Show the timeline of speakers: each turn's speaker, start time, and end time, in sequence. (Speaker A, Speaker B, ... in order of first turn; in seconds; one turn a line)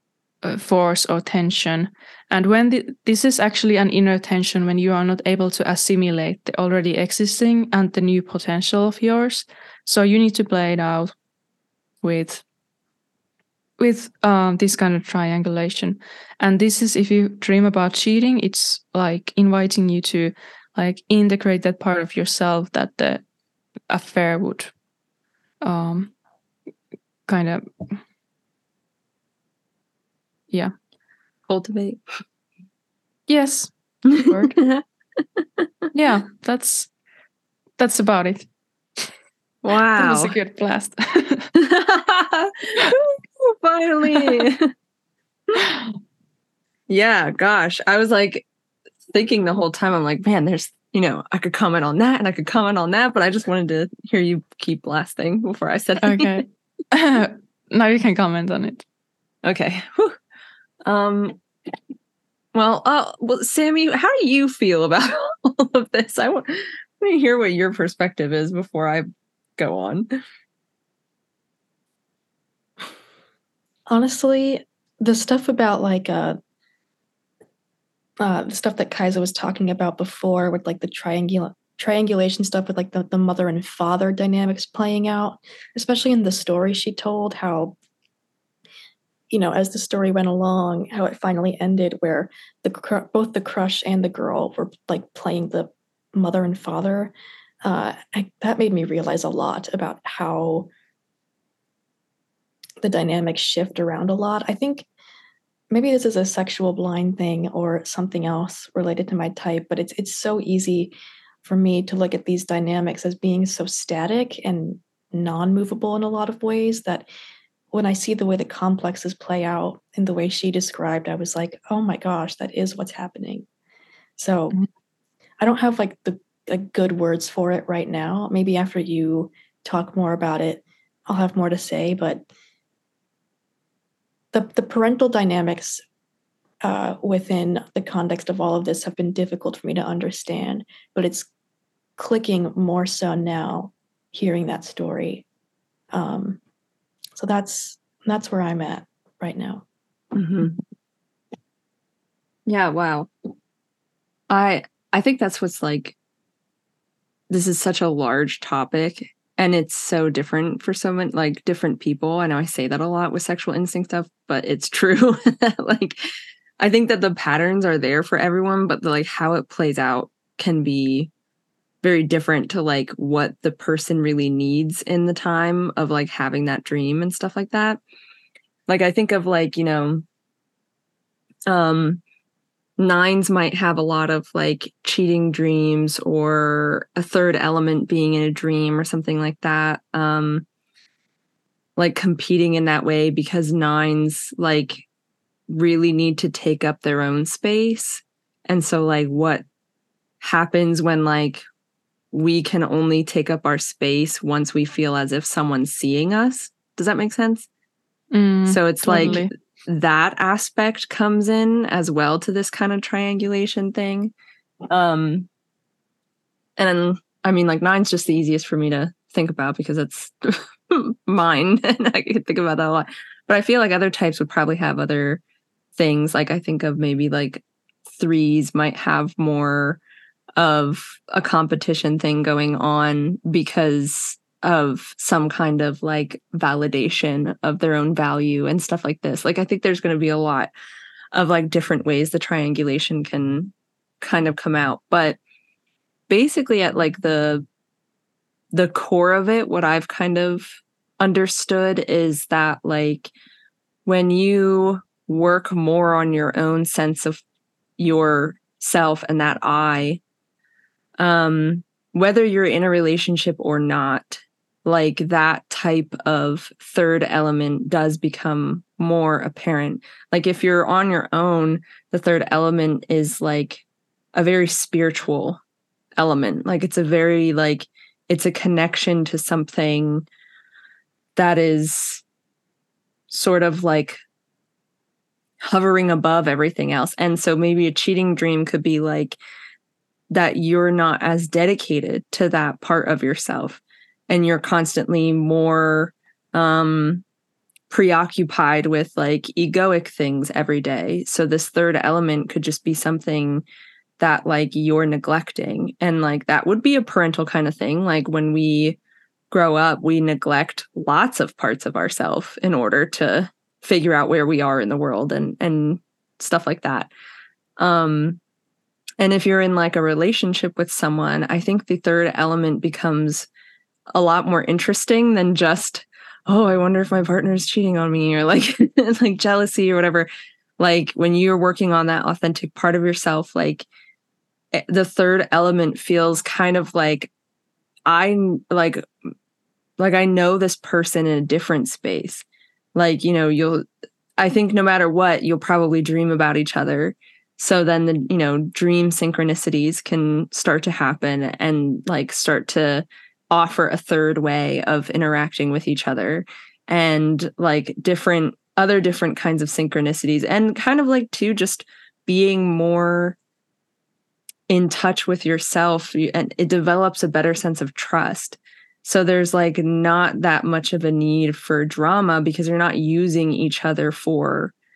Speaker A: 0.4-11.1
Speaker A: 12.0-12.4
Speaker A: 13.8-23.2
Speaker A: 23.9-24.7
Speaker A: 25.6-26.1
Speaker A: 27.3-28.0
Speaker B: 31.5-32.0
Speaker A: 33.3-34.6
Speaker B: 34.2-35.7
Speaker A: 35.9-36.9
Speaker A: 37.8-38.5
Speaker B: 39.6-40.4
Speaker A: 40.0-41.5
Speaker B: 41.6-44.7
Speaker A: 44.1-44.5
Speaker A: 45.6-45.9
Speaker B: 46.9-48.5
Speaker B: 49.1-56.5
Speaker A: 56.0-58.9
Speaker B: 59.4-60.2
Speaker B: 60.8-61.4
Speaker B: 62.5-69.1
Speaker B: 69.6-70.1
Speaker C: 73.9-76.4
Speaker C: 78.2-87.8
Speaker C: 89.3-100.7
Speaker C: 102.8-104.9
Speaker C: 105.7-117.1
Speaker C: 117.7-123.5
Speaker C: 124.2-124.6
Speaker C: 125.4-132.3
Speaker C: 134.3-135.8
Speaker C: 136.6-141.3
Speaker C: 142.0-145.2
Speaker C: 145.9-146.4
Speaker C: 147.2-149.7
Speaker B: 150.1-150.6
Speaker B: 152.5-153.1
Speaker B: 154.3-156.0
Speaker B: 157.3-166.0
Speaker B: 166.6-171.1
Speaker B: 171.8-177.8
Speaker B: 178.7-180.1
Speaker B: 181.5-182.0
Speaker B: 182.8-190.5
Speaker B: 191.8-194.9
Speaker B: 195.5-199.4
Speaker B: 200.2-201.4
Speaker B: 202.1-207.5
Speaker A: 208.1-209.3
Speaker B: 208.5-214.1
Speaker B: 214.7-215.3
Speaker B: 216.6-225.2
Speaker B: 225.8-229.8
Speaker B: 230.4-240.5
Speaker B: 241.1-245.2
Speaker B: 246.1-247.5
Speaker B: 248.5-253.1
Speaker B: 253.9-257.2
Speaker B: 257.8-260.0
Speaker B: 261.0-275.4
Speaker B: 276.0-280.1
Speaker B: 281.2-282.0
Speaker B: 283.1-284.0
Speaker B: 285.4-289.2
Speaker B: 290.1-297.0
Speaker B: 297.7-303.4
Speaker B: 304.0-308.8
Speaker B: 309.3-316.9
Speaker B: 317.6-318.2
Speaker B: 319.0-323.3
Speaker B: 323.9-330.1
Speaker B: 330.6-333.7
Speaker B: 334.5-337.1
Speaker B: 337.9-338.9
Speaker B: 339.8-343.6
Speaker B: 344.2-363.2
Speaker B: 364.5-374.5